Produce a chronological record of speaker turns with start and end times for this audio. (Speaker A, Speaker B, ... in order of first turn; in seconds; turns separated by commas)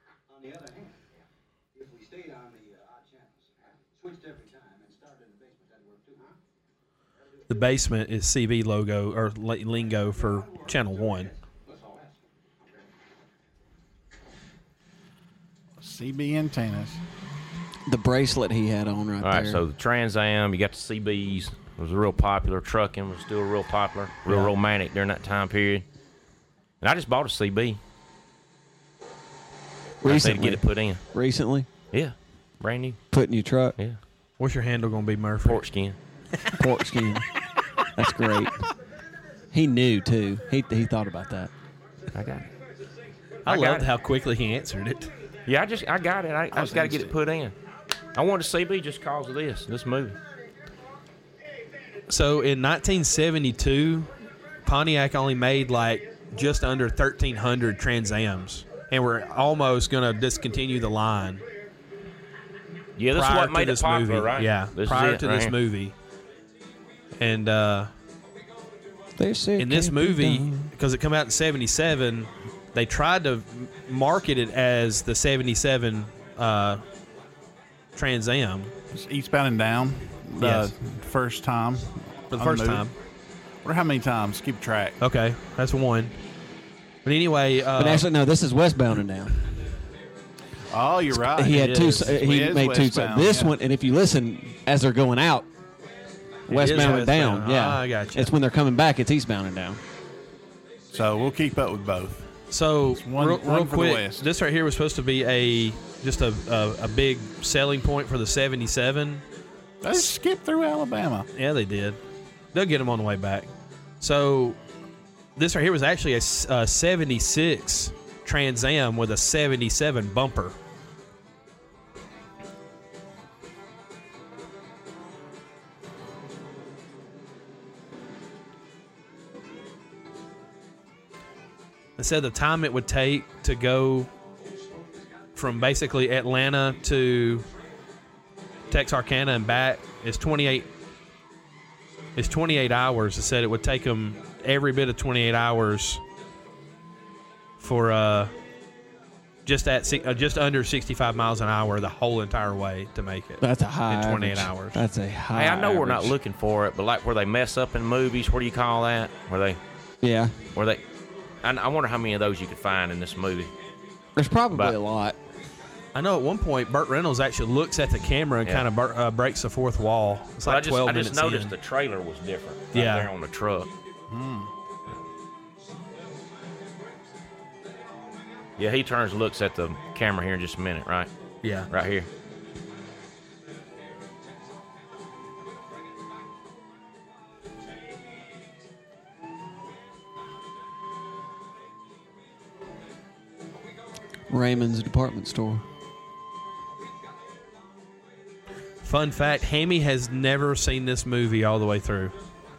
Speaker A: 0.3-6.4, Speaker A: 7.2-7.8, Speaker B: 7.5-11.3, Speaker A: 9.7-13.1, Speaker C: 15.8-17.0, Speaker D: 17.9-19.6, Speaker E: 19.2-25.9, Speaker D: 24.3-24.5, Speaker E: 26.8-27.8, Speaker D: 30.0-31.7, Speaker E: 30.0-31.0, Speaker E: 31.9-33.0, Speaker D: 33.1-33.8, Speaker B: 34.4-35.6, Speaker E: 35.4-36.0, Speaker D: 36.5-37.3, Speaker D: 37.9-38.7, Speaker D: 39.5-41.5, Speaker A: 41.9-45.9, Speaker E: 42.1-42.5, Speaker B: 43.4-45.1, Speaker E: 43.4-43.9, Speaker E: 45.4-47.6, Speaker E: 48.1-50.2, Speaker A: 50.3-50.8, Speaker A: 51.4-52.0, Speaker B: 52.1-61.4, Speaker A: 56.0-56.3, Speaker E: 63.0-65.5, Speaker B: 63.1-66.0, Speaker B: 67.2-67.9, Speaker D: 69.2-70.7, Speaker B: 69.6-76.8, Speaker B: 78.0-78.7, Speaker C: 78.9-82.9, Speaker B: 80.4-80.7, Speaker B: 82.3-82.9, Speaker C: 83.6-85.0, Speaker B: 85.0-86.2, Speaker B: 87.0-88.1, Speaker D: 87.7-89.4, Speaker C: 90.7-93.6, Speaker D: 91.1-95.5, Speaker B: 91.3-92.1, Speaker B: 96.5-98.3, Speaker D: 96.5-99.8, Speaker C: 100.9-104.3, Speaker B: 102.5-109.2, Speaker C: 109.8-111.3, Speaker B: 111.3-112.0, Speaker B: 112.5-114.6, Speaker B: 115.3-120.6, Speaker B: 132.0-134.1, Speaker A: 134.4-135.0, Speaker B: 135.3-137.5, Speaker B: 138.7-140.7, Speaker B: 142.2-146.0, Speaker B: 147.6-148.3, Speaker B: 149.4-154.8, Speaker D: 153.4-156.1, Speaker E: 155.3-159.6, Speaker D: 160.0-160.4, Speaker E: 160.5-160.8, Speaker E: 161.4-163.5, Speaker D: 164.2-165.2, Speaker E: 164.5-164.8, Speaker B: 165.9-171.5, Speaker E: 170.4-173.7, Speaker B: 172.7-173.1, Speaker C: 174.1-174.5, Speaker A: 177.8-178.5, Speaker E: 178.6-181.1, Speaker B: 181.4-181.7, Speaker E: 181.7-182.1, Speaker A: 185.4-185.9, Speaker D: 194.3-195.6, Speaker B: 198.8-202.2